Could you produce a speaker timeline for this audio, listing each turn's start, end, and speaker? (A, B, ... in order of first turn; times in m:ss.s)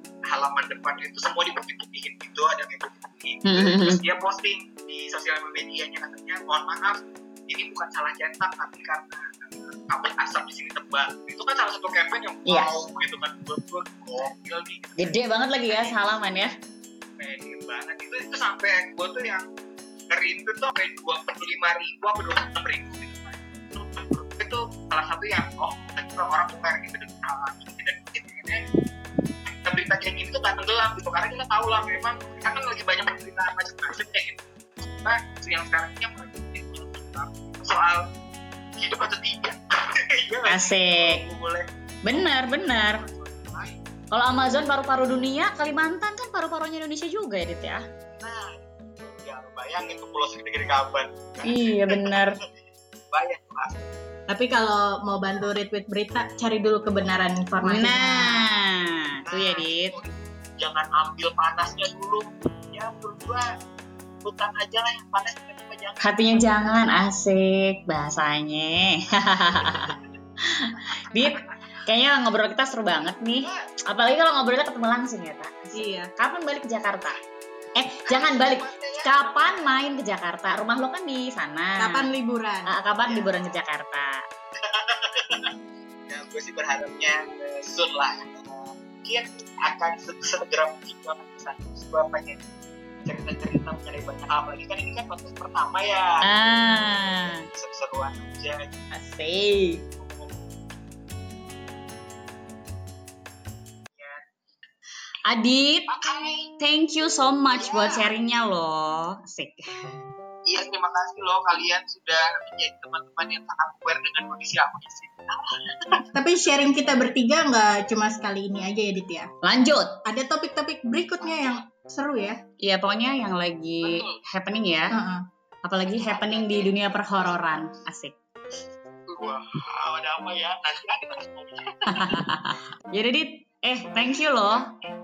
0:00.3-0:16.1 A
0:03.5-0:04.0 B
0:15.0-0:16.5 B
0:17.2-0:19.4 A
0:20.1-0:28.6 A
0:29.7-0:34.4 A
0:35.0-0:38.0 A
0:38.8-0:39.6 A
0:40.2-0:43.8 A
0:40.5-0:41.2 B
0:42.0-0:43.0 B
0:44.1-0:47.8 B
0:48.2-0:52.2 A
0:51.4-0:52.4 B
0:53.1-0:53.9 A
0:54.3-0:58.5 C
0:57.6-0:59.9 B
0:59.3-1:03.4 A
1:04.2-1:06.8 A
1:06.0-1:09.9 B
1:09.2-1:10.0 A
1:10.7-1:11.4 B
1:10.8-1:11.8 A
1:11.9-1:17.2 B
1:13.4-1:13.7 A
1:15.7-1:16.1 C
1:17.8-1:22.0 B
1:18.1-1:19.7 A
1:21.8-1:22.7 C
1:22.7-1:24.2 B
1:23.1-1:23.3 A
1:24.7-1:25.5 A
1:26.1-1:32.4 A
1:33.0-1:36.2 A
1:36.3-1:37.4 B
1:37.2-1:38.7 A
1:38.9-1:39.8 B
1:40.0-1:40.5 A
1:43.9-1:44.2 A
1:45.3-1:45.9 B
1:45.9-1:46.6 A
1:46.6-1:49.6 B
1:47.6-1:48.1 A
1:50.5-1:55.5 A
1:56.2-1:59.3 C
1:59.4-2:00.0 B
2:00.1-2:02.4 C
2:01.2-2:01.6 A
2:02.6-2:04.9 B
2:03.8-2:04.2 A
2:04.9-2:05.2 C
2:05.6-2:08.2 B
2:05.9-2:07.5 A
2:09.1-2:12.2 A
2:11.9-2:14.7 B